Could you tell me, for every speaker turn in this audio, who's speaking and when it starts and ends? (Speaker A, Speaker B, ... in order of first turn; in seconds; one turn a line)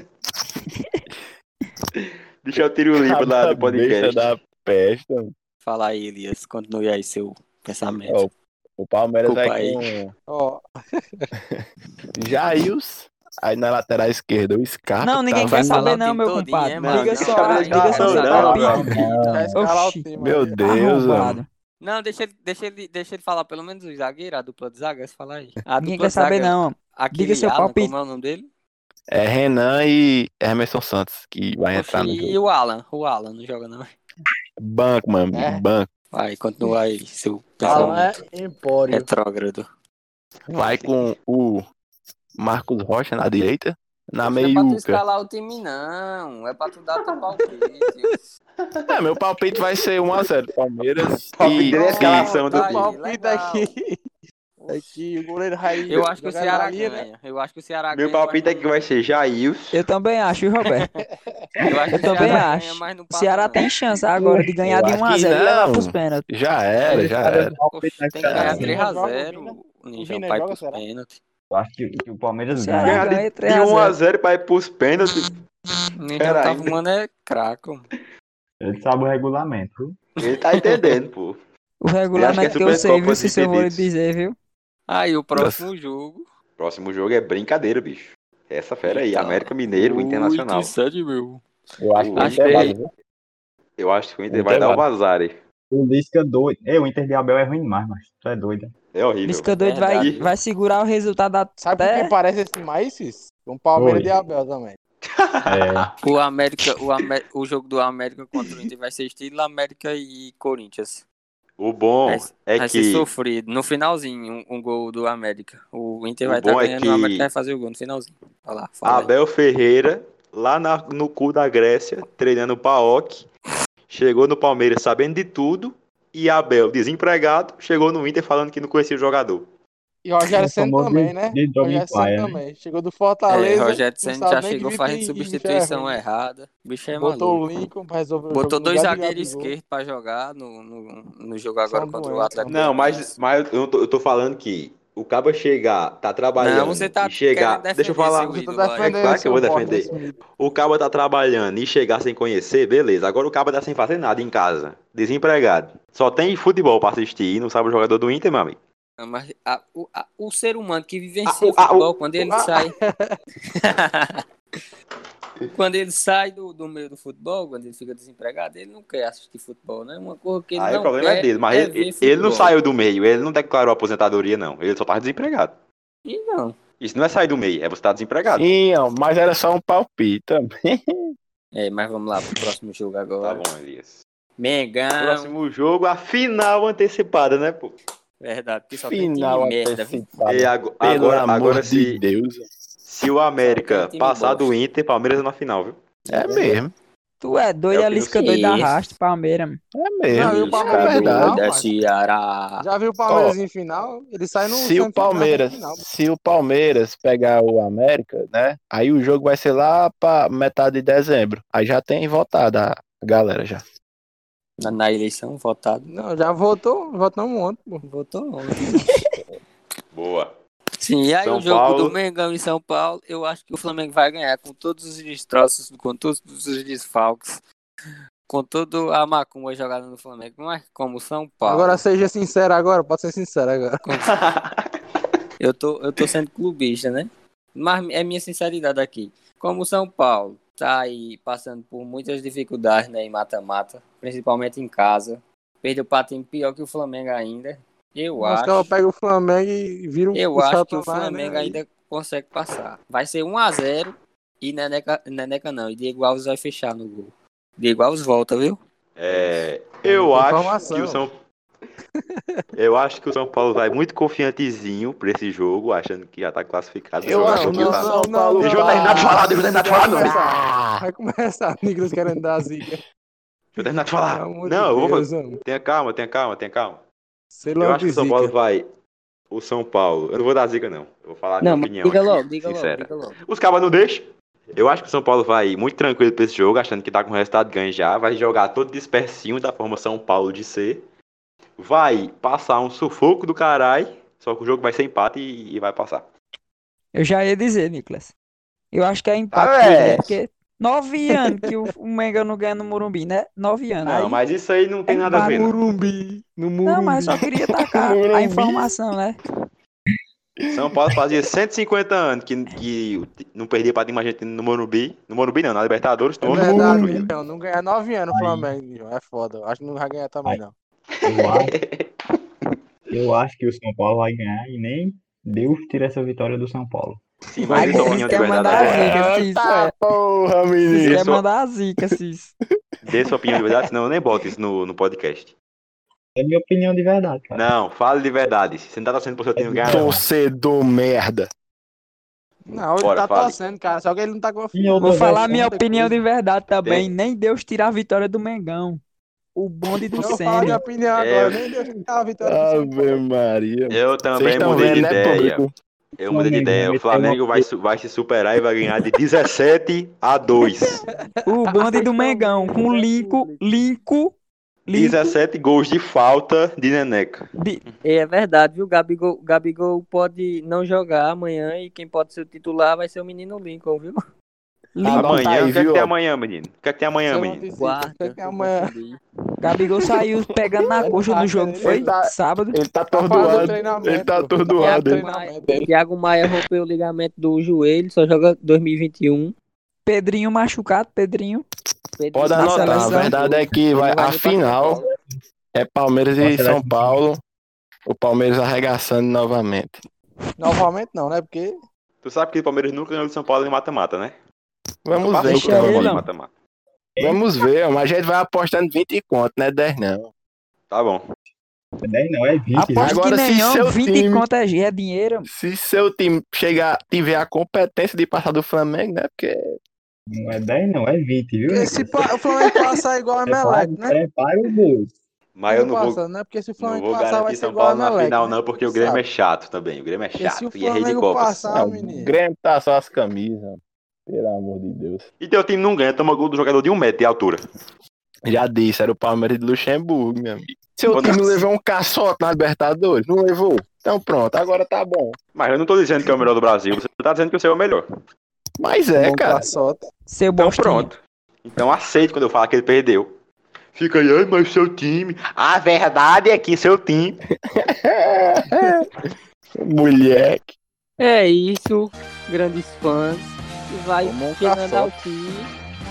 Speaker A: 1.9-4.3
Speaker B: 2.9-5.3
Speaker C: 5.6-8.3
Speaker B: 8.1-10.1
Speaker C: 9.2-9.8
Speaker D: 10.3-11.3
Speaker B: 11.4-16.0
Speaker E: 15.0-20.1
Speaker C: 15.4-19.4
Speaker A: 16.8-18.8
Speaker F: 18.0-19.6
Speaker D: 18.6-20.6
Speaker B: 19.1-19.4
Speaker B: 20.2-21.4
Speaker E: 20.6-21.5
Speaker C: 21.8-28.5
Speaker E: 25.8-27.9
Speaker B: 29.1-32.4
Speaker C: 31.7-33.9
Speaker B: 34.6-35.9
Speaker D: 35.3-35.6
Speaker C: 36.1-38.1
Speaker D: 37.6-39.1
Speaker C: 38.9-39.7
Speaker B: 40.5-41.6
Speaker B: 42.4-45.0
Speaker C: 44.2-48.2
Speaker B: 48.9-52.3
Speaker A: 51.3-52.9
Speaker D: 51.5-54.0
Speaker C: 51.8-53.7
Speaker D: 54.6-57.1
Speaker C: 55.9-58.6
Speaker A: 57.9-59.8
Speaker E: 59.7-60.9
Speaker D: 61.0-62.4
Speaker C: 61.6-63.7
Speaker E: 62.0-66.3
Speaker B: 64.2-67.6
Speaker C: 66.8-67.2
Speaker F: 66.9-68.8
Speaker C: 67.7-71.2
Speaker B: 68.2-68.8
Speaker D: 68.5-70.8
Speaker F: 71.5-73.1
Speaker E: 72.5-74.0
Speaker A: 72.8-75.4
Speaker C: 76.0-77.9
Speaker A: 76.2-76.8
Speaker F: 78.6-80.0
Speaker A: 80.2-81.4
Speaker C: 80.2-80.8
Speaker E: 81.8-84.3
Speaker A: 82.2-83.9
Speaker C: 84.9-86.2
Speaker B: 85.3-85.7
Speaker A: 86.6-90.7
Speaker C: 88.8-91.5
Speaker B: 91.8-92.9
Speaker A: 92.0-92.8
Speaker C: 92.2-92.7
Speaker A: 93.8-95.4
Speaker B: 94.3-94.9
Speaker F: 95.7-98.7
Speaker A: 98.9-100.2
Speaker E: 99.2-102.1
Speaker C: 99.6-100.3
Speaker D: 101.6-104.8
Speaker F: 103.8-104.1
Speaker A: 105.0-106.0
Speaker F: 105.5-105.9
Speaker C: 106.0-111.0
Speaker A: 111.6-113.1
Speaker C: 112.1-119.1
Speaker A: 116.2-117.3
Speaker A: 118.8-123.3
Speaker A: 123.9-129.5
Speaker D: 130.0-136.0
Speaker F: 130.3-132.4
Speaker C: 133.3-137.4
Speaker D: 137.0-139.5
Speaker C: 138.3-143.2
Speaker D: 141.7-142.6
Speaker A: 142.5-158.6
Speaker C: 146.4-149.2
Speaker D: 148.3-150.2
Speaker C: 159.0-162.7
Speaker A: 161.3-161.9
Speaker D: 162.2-163.2
Speaker C: 163.6-164.6
Speaker C: 165.4-172.6
Speaker A: 170.6-175.6
Speaker C: 176.1-176.6
Speaker A: 176.8-178.5
Speaker B: 178.3-181.1
Speaker C: 181.6-183.4
Speaker A: 183.2-184.0
Speaker C: 184.4-185.3
Speaker A: 185.0-187.8
Speaker C: 188.2-190.1
Speaker B: 188.7-192.4
Speaker A: 190.3-192.0
Speaker A: 192.8-195.8
Speaker C: 193.4-194.6
Speaker C: 196.1-196.6
Speaker B: 196.1-196.7
Speaker E: 197.2-199.6
Speaker A: 197.7-198.4
Speaker C: 198.2-198.9
Speaker B: 199.8-201.4
Speaker D: 200.1-201.8
Speaker A: 200.2-200.6
Speaker C: 200.3-202.6
Speaker D: 202.6-205.8
Speaker B: 203.1-203.3
Speaker B: 204.4-213.6
Speaker C: 214.6-215.9
Speaker D: 215.9-217.8
Speaker C: 217.9-218.8
Speaker A: 219.9-220.4
Speaker C: 220.8-227.4
Speaker A: 221.2-222.0
Speaker C: 228.3-231.8
Speaker D: 231.4-233.9
Speaker C: 233.9-234.1
Speaker A: 234.0-234.8
Speaker C: 235.4-248.7
Speaker D: 248.2-251.6
Speaker C: 250.1-258.6
Speaker A: 259.0-261.2
Speaker D: 259.9-261.0
Speaker D: 262.0-262.4
Speaker A: 262.6-270.1
Speaker B: 267.0-270.8
Speaker D: 267.1-272.8
Speaker A: 273.5-276.8
Speaker D: 274.1-275.4
Speaker D: 277.3-278.3
Speaker A: 277.6-278.7
Speaker A: 279.3-290.8
Speaker C: 281.4-283.2
Speaker A: 291.6-296.1
Speaker E: 296.9-298.1
Speaker E: 298.7-304.2
Speaker A: 299.3-300.1
Speaker A: 303.8-305.6
Speaker E: 304.9-305.5
Speaker D: 305.1-307.2
Speaker E: 306.6-309.2
Speaker B: 307.1-308.8
Speaker A: 310.5-317.1
Speaker B: 316.2-317.1
Speaker D: 316.2-320.5
Speaker F: 318.1-318.5
Speaker A: 320.9-322.5
Speaker F: 321.1-321.6
Speaker F: 322.9-327.0
Speaker A: 327.3-329.0
Speaker D: 327.5-328.2
Speaker E: 327.5-329.7
Speaker B: 328.5-331.0
Speaker E: 330.7-332.3
Speaker A: 330.8-331.2
Speaker A: 332.8-335.4
Speaker B: 332.9-333.7
Speaker F: 336.2-337.5
Speaker A: 337.3-340.0
Speaker F: 339.4-340.0
Speaker B: 339.6-341.3
Speaker D: 342.5-345.9
Speaker A: 342.8-343.4
Speaker F: 344.5-345.5
Speaker E: 344.8-348.8
Speaker A: 346.6-346.9
Speaker E: 349.4-350.6
Speaker D: 349.9-353.0
Speaker A: 350.9-351.5
Speaker B: 352.2-355.5
Speaker A: 353.7-355.4
Speaker A: 356.0-360.8
Speaker F: 356.1-357.5
Speaker E: 361.3-364.1
Speaker C: 361.6-363.5
Speaker E: 364.7-365.2
Speaker A: 364.7-367.8
Speaker E: 367.4-367.6
Speaker C: 367.8-374.0
Speaker E: 374.8-375.2
Speaker B: 374.8-375.9
Speaker A: 374.9-377.5
Speaker D: 377.1-378.7
Speaker C: 377.6-379.0
Speaker E: 379.4-382.6
Speaker B: 380.2-380.9
Speaker D: 380.8-381.9
Speaker B: 381.6-385.1
Speaker D: 382.9-385.7
Speaker C: 383.1-383.6
Speaker C: 384.5-389.3
Speaker E: 389.9-391.4
Speaker C: 392.0-394.9
Speaker B: 392.1-394.8
Speaker E: 392.4-393.2
Speaker B: 395.5-397.2
Speaker F: 396.2-397.0
Speaker B: 397.9-399.8
Speaker D: 400.4-401.5
Speaker A: 402.0-404.2
Speaker B: 404.9-406.0
Speaker A: 405.0-406.3
Speaker E: 405.2-406.1
Speaker F: 407.0-407.2
Speaker B: 407.0-410.1
Speaker A: 410.7-411.1
Speaker F: 411.8-413.0
Speaker E: 412.6-415.3
Speaker B: 412.8-414.3
Speaker B: 415.3-419.6
Speaker F: 420.1-421.9
Speaker D: 421.5-424.0
Speaker F: 423.3-424.9
Speaker A: 425.4-426.0
Speaker D: 425.5-429.0
Speaker A: 426.6-431.5
Speaker D: 430.2-432.1
Speaker B: 431.5-435.1
Speaker A: 435.2-437.4
Speaker B: 438.2-445.2
Speaker A: 440.9-441.4
Speaker A: 445.4-447.9
Speaker B: 448.6-449.5
Speaker D: 449.0-449.8
Speaker E: 450.1-450.9
Speaker A: 450.4-453.2
Speaker A: 453.7-457.2
Speaker B: 457.4-458.9
Speaker B: 459.6-460.6
Speaker C: 461.0-465.5
Speaker D: 464.0-464.9